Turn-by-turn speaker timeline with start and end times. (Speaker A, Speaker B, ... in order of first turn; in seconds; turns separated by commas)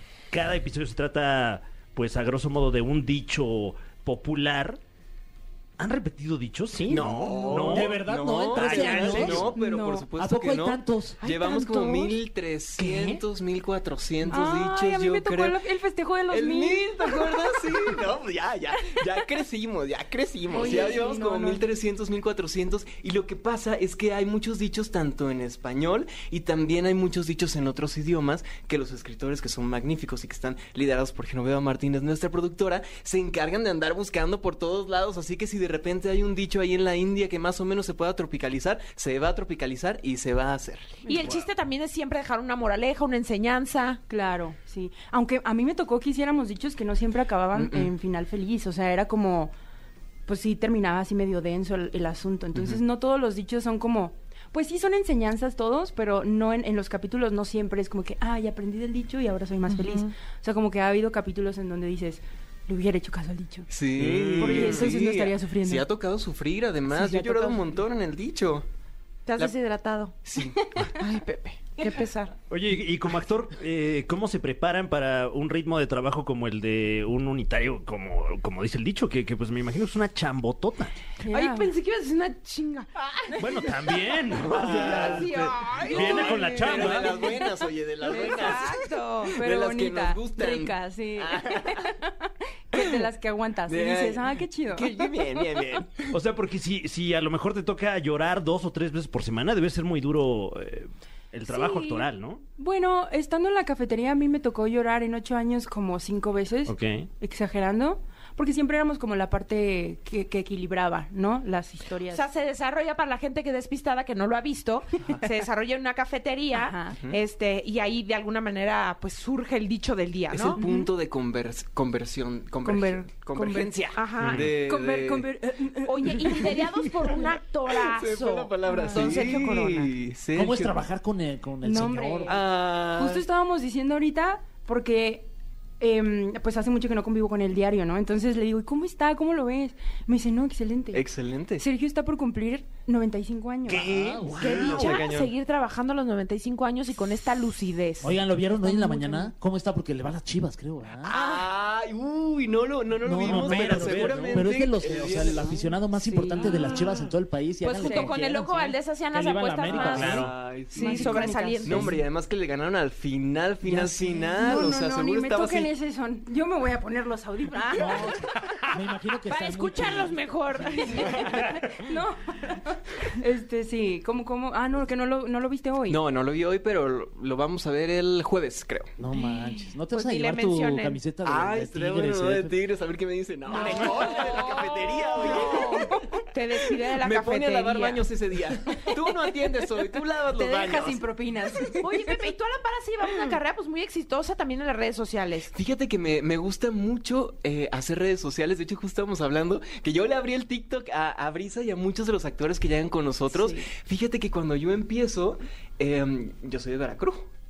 Speaker A: 0.3-4.8, Speaker A: 5.8-8.0, Speaker B: 6.9-15.6, Speaker C: 7.5-9.5, Speaker A: 8.5-9.5, Speaker D: 8.9-10.1, Speaker C: 10.2-11.2, Speaker D: 11.2-12.2, Speaker D: 12.8-13.2, Speaker D: 14.2-18.1, Speaker B: 16.3-41.0, Speaker D: 18.8-19.3, Speaker D: 20.5-21.6, Speaker E: 41.0-44.0, Speaker D: 44.1-49.5, Speaker B: 47.5-47.9, Speaker D: 50.3-63.7, Speaker B: 52.5-52.8, Speaker E: 59.7-60.1, Speaker B: 63.7-68.7, Speaker A: 64.0-64.9, Speaker D: 64.3-65.9, Speaker D: 66.9-67.8, Speaker E: 69.3-70.2, Speaker B: 70.2-70.6, Speaker D: 70.4-70.9, Speaker E: 71.0-72.3, Speaker A: 72.5-81.0, Speaker D: 81.2-81.7, Speaker E: 81.3-83.3, Speaker A: 83.4-87.3, Speaker B: 84.3-91.8, Speaker E: 84.8-87.1, Speaker D: 87.2-87.5, Speaker E: 88.1-89.3, Speaker D: 88.1-88.6, Speaker D: 89.3-95.8, Speaker B: 93.7-96.2, Speaker A: 96.1-102.4, Speaker D: 101.5-102.0, Speaker D: 102.6-112.2, Speaker A: 106.7-107.1, Speaker E: 112.1-120.6, Speaker D: 116.5-117.0, Speaker B: 120.3-125.3, Speaker D: 120.5-120.9, Speaker D: 122.6-123.8, Speaker E: 123.9-124.4, Speaker A: 124.2-124.5, Speaker D: 124.5-127.2, Speaker E: 125.8-129.9, Speaker B: 127.8-130.8, Speaker D: 128.6-129.3, Speaker C: 130.3-132.3, Speaker D: 131.6-135.2, Speaker B: 132.3-133.2, Speaker D: 135.8-143.9, Speaker B: 140.9-141.6, Speaker A: 143.7-144.9, Speaker C: 143.8-144.7, Speaker B: 144.4-145.3, Speaker E: 144.4-148.1, Speaker C: 148.0-151.2, Speaker D: 148.5-149.3, Speaker B: 151.0-155.7, Speaker E: 151.1-151.4, Speaker C: 153.0-158.6, Speaker A: 153.2-154.5, Speaker D: 155.9-156.9, Speaker E: 157.6-162.0, Speaker D: 157.8-158.2, Speaker C: 159.1-160.3, Speaker B: 159.9-165.7, Speaker A: 159.9-160.3, Speaker D: 160.7-162.0, Speaker D: 163.7-168.2, Speaker C: 167.7-170.2, Speaker E: 169.3-171.4, Speaker D: 170.8-176.0, Speaker B: 175.9-178.9, Speaker C: 179.0-182.6, Speaker E: 179.9-181.0, Speaker B: 181.2-185.8, Speaker D: 183.5-186.2, Speaker E: 183.5-188.0, Speaker B: 186.9-191.0, Speaker D: 188.7-189.7, Speaker D: 190.3-192.2, Speaker E: 191.8-195.5, Speaker B: 195.5-207.3, Speaker E: 203.3-203.6